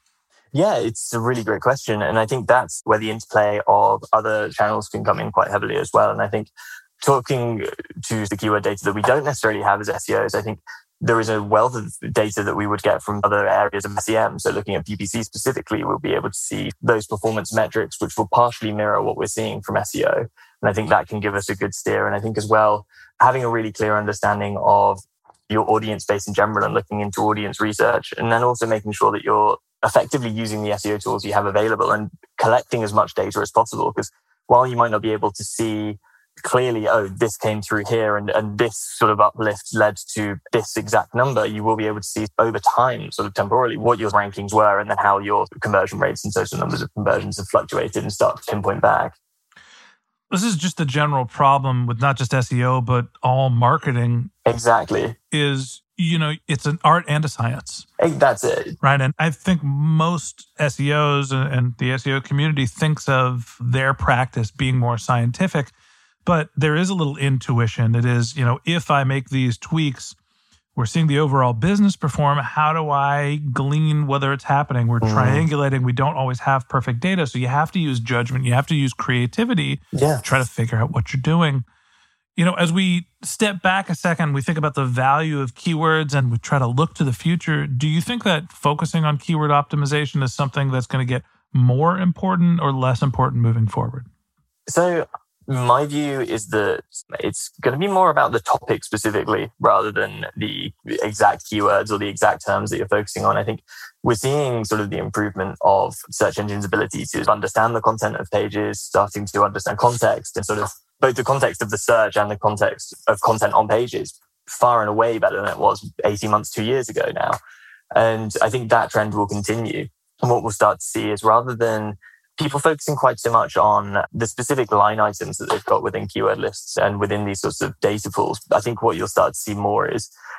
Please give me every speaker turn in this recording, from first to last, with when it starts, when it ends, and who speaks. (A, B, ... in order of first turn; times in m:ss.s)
0:00.5-0:49.2 A
0:50.3-0:54.3 B
0:54.5-0:55.2 A
0:55.3-0:57.9 B
0:58.0-0:58.8 A
0:58.8-1:05.7 B
1:06.3-1:10.2 B
1:10.8-1:21.6 B
1:15.0-1:15.5 A
1:19.9-1:20.2 A
1:22.4-1:34.1 B
1:34.7-1:57.4 A
1:58.0-2:10.1 A